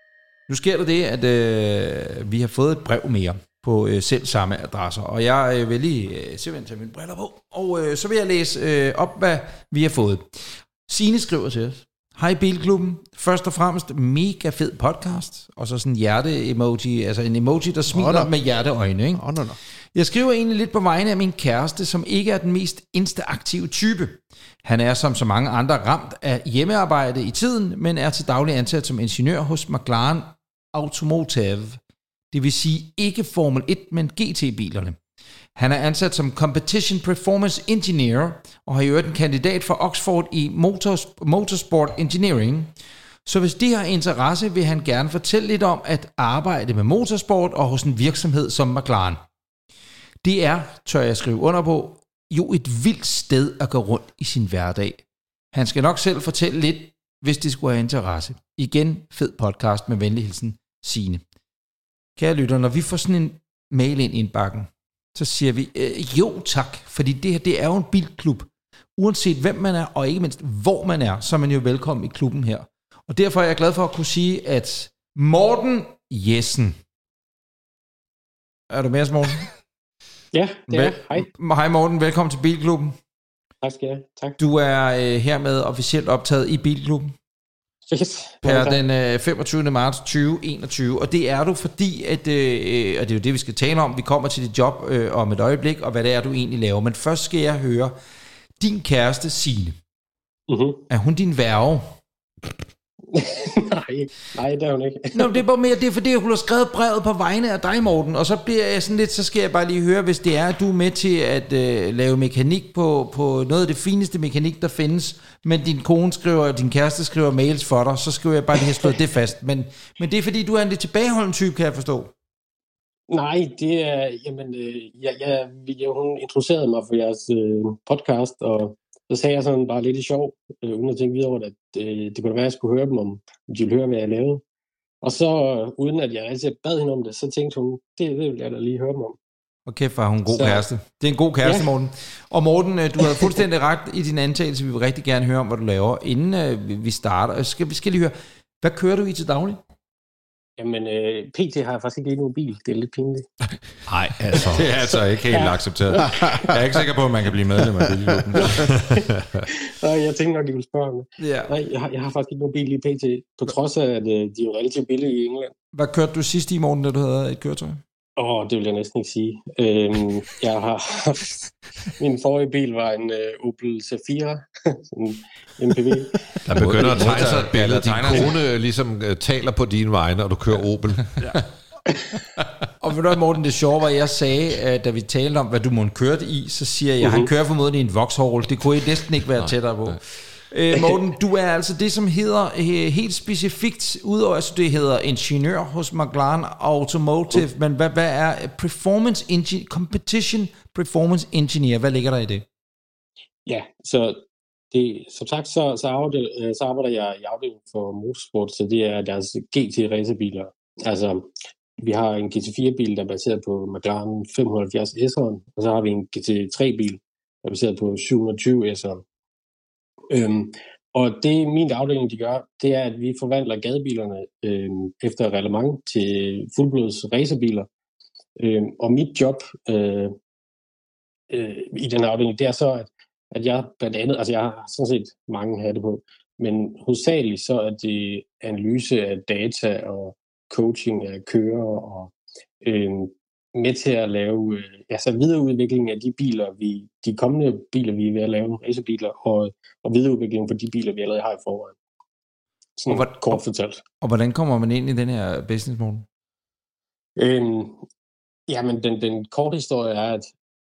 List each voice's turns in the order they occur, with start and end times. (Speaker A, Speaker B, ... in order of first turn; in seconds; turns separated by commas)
Speaker A: 0.5-19.2, Speaker B: 17.9-18.3, Speaker B: 19.1-19.6, Speaker A: 19.9-31.8, Speaker A: 32.3-35.0, Speaker A: 35.6-42.7, Speaker A: 43.2-49.2, Speaker A: 50.2-61.2, Speaker A: 62.2-76.8, Speaker A: 78.7-79.5, Speaker C: 80.3-81.3, Speaker A: 80.7-83.0, Speaker C: 83.6-84.4, Speaker A: 84.4-87.2, Speaker C: 87.9-88.8, Speaker A: 88.4-98.0, Speaker A: 98.6-99.8, Speaker C: 100.5-100.8, Speaker A: 100.9-102.0, Speaker C: 103.1-105.4, Speaker A: 105.1-122.1, Speaker C: 123.1-134.4, Speaker C: 135.0-139.2, Speaker A: 139.7-149.6, Speaker C: 140.3-140.7, Speaker C: 141.4-141.7, Speaker C: 143.0-143.3, Speaker C: 150.6-153.3, Speaker D: 153.9-154.8, Speaker E: 154.3-158.8, Speaker C: 154.8-156.4, Speaker B: 156.1-156.6, Speaker B: 157.8-158.4, Speaker C: 158.4-165.5, Speaker D: 158.7-159.5, Speaker A: 161.2-161.5, Speaker A: 165.7-167.8, Speaker C: 168.2-176.2, Speaker D: 176.5-181.1, Speaker E: 176.5-178.4, Speaker C: 176.8-177.2, Speaker A: 182.8-202.4, Speaker C: 187.0-187.3, Speaker C: 190.7-191.0, Speaker C: 203.5-219.0, Speaker C: 220.1-227.7, Speaker C: 228.4-230.2, Speaker C: 231.3-251.8, Speaker C: 252.8-253.8, Speaker A: 252.9-253.4, Speaker A: 254.0-256.1, Speaker C: 257.2-257.8, Speaker C: 258.5-260.3